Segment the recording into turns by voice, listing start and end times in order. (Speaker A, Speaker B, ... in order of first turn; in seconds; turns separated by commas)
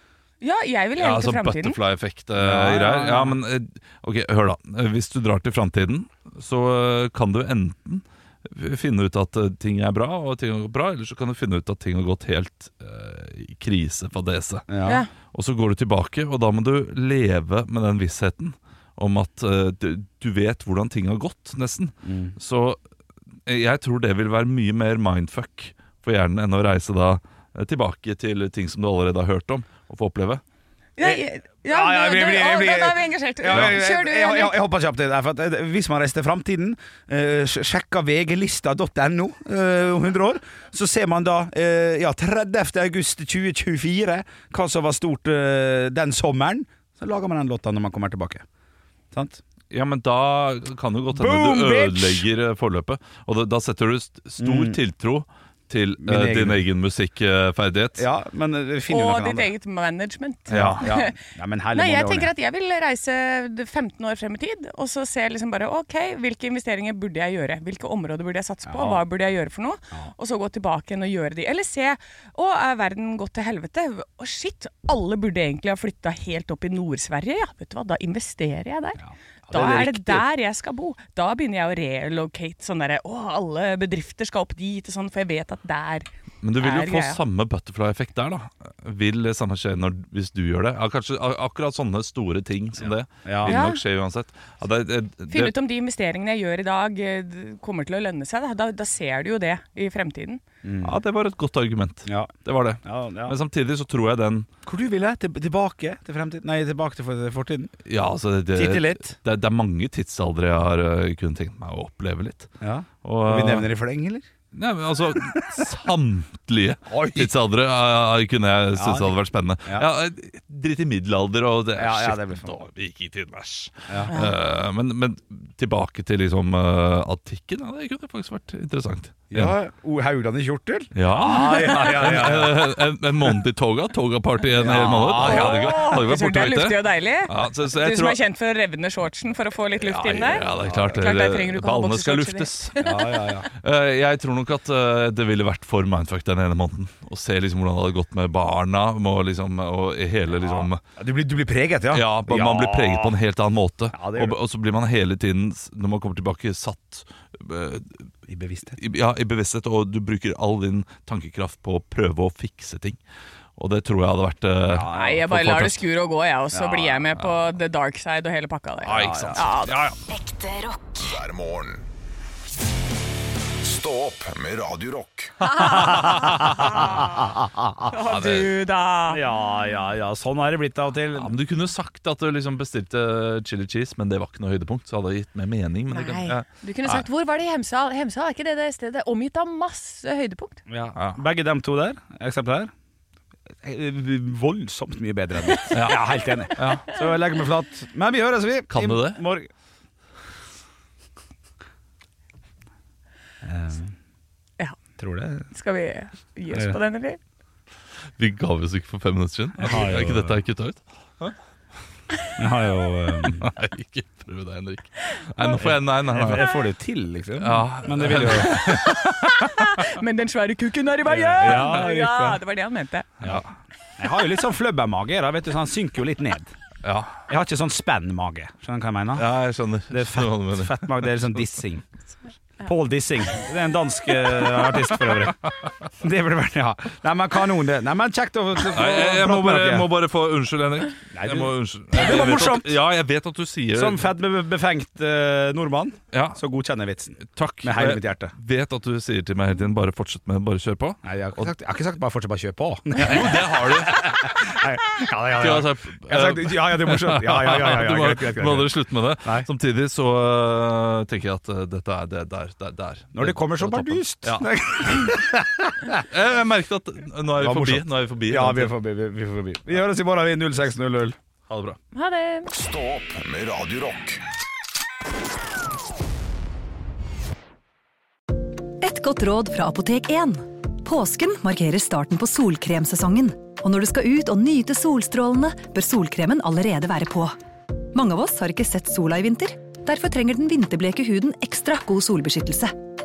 Speaker A: 0.4-1.8, Speaker B: 1.0-14.7, Speaker C: 2.4-3.4, Speaker C: 14.7-15.0, Speaker B: 15.3-22.8, Speaker C: 22.0-22.4, Speaker B: 23.5-30.4, Speaker A: 31.0-34.6, Speaker C: 31.0-48.5, Speaker C: 49.1-49.4, Speaker B: 49.7-58.1, Speaker C: 51.1-52.3, Speaker C: 54.4-54.8, Speaker C: 56.0-56.6, Speaker C: 58.0-59.5, Speaker A: 58.9-61.2, Speaker C: 60.5-62.3, Speaker B: 60.5-60.8, Speaker A: 61.7-79.0, Speaker C: 68.7-69.0, Speaker C: 79.0-80.1, Speaker A: 79.5-86.1, Speaker B: 86.4-95.5, Speaker A: 86.6-87.2, Speaker C: 92.8-93.6, Speaker A: 93.5-93.8, Speaker A: 95.3-100.4, Speaker C: 100.6-101.0, Speaker B: 100.8-104.5, Speaker C: 102.0-103.3, Speaker C: 104.7-107.8, Speaker B: 107.8-112.5, Speaker C: 108.5-109.2, Speaker C: 112.6-114.3, Speaker B: 113.0-113.7, Speaker B: 114.5-129.5, Speaker C: 116.9-117.3, Speaker C: 118.7-119.1, Speaker C: 121.8-122.6, Speaker A: 124.1-124.4, Speaker C: 129.3-132.8, Speaker B: 130.9-138.2, Speaker C: 134.5-135.9, Speaker A: 135.1-143.2, Speaker B: 139.8-142.8, Speaker C: 140.5-141.0, Speaker C: 142.8-143.5, Speaker B: 143.5-150.8, Speaker C: 150.3-153.2, Speaker B: 151.9-158.0, Speaker C: 153.9-154.4, Speaker C: 158.3-158.8, Speaker B: 158.8-163.0, Speaker B: 163.6-165.8, Speaker C: 164.7-165.3, Speaker A: 164.9-169.8, Speaker C: 166.5-167.1, Speaker B: 168.8-169.9, Speaker C: 168.9-169.6, Speaker D: 170.1-171.9, Speaker D: 173.6-175.5, Speaker A: 175.4-177.2, Speaker A: 177.9-179.2, Speaker B: 178.0-178.5, Speaker C: 179.1-181.4, Speaker B: 181.1-187.0, Speaker A: 185.9-190.6, Speaker C: 190.7-192.7, Speaker B: 191.0-191.2, Speaker C: 193.6-199.5, Speaker B: 195.7-196.9, Speaker B: 198.7-199.2, Speaker C: 203.4-203.9, Speaker C: 205.0-205.5, Speaker A: 205.5-207.2, Speaker C: 206.5-206.8, Speaker B: 208.2-211.3, Speaker C: 209.6-210.4, Speaker C: 212.4-213.5, Speaker B: 213.2-216.5, Speaker C: 215.6-218.8, Speaker B: 217.4-219.6, Speaker A: 218.5-223.1, Speaker C: 221.1-222.4, Speaker C: 224.0-226.5, Speaker B: 226.8-227.2, Speaker C: 227.3-229.3, Speaker B: 229.2-231.3, Speaker C: 229.9-231.8, Speaker C: 232.6-235.4, Speaker C: 236.0-239.9, Speaker B: 238.7-244.0, Speaker C: 241.1-242.8, Speaker C: 243.7-248.3, Speaker B: 246.1-246.4, Speaker B: 247.2-251.5, Speaker C: 251.1-258.7, Speaker B: 253.0-254.1, Speaker B: 255.4-264.5, Speaker C: 263.1-266.0, Speaker B: 266.0-268.7, Speaker C: 267.4-271.2, Speaker B: 271.5-271.8, Speaker A: 271.9-272.5, Speaker D: 272.5-274.2, Speaker E: 278.8-287.4, Speaker E: 287.9-292.7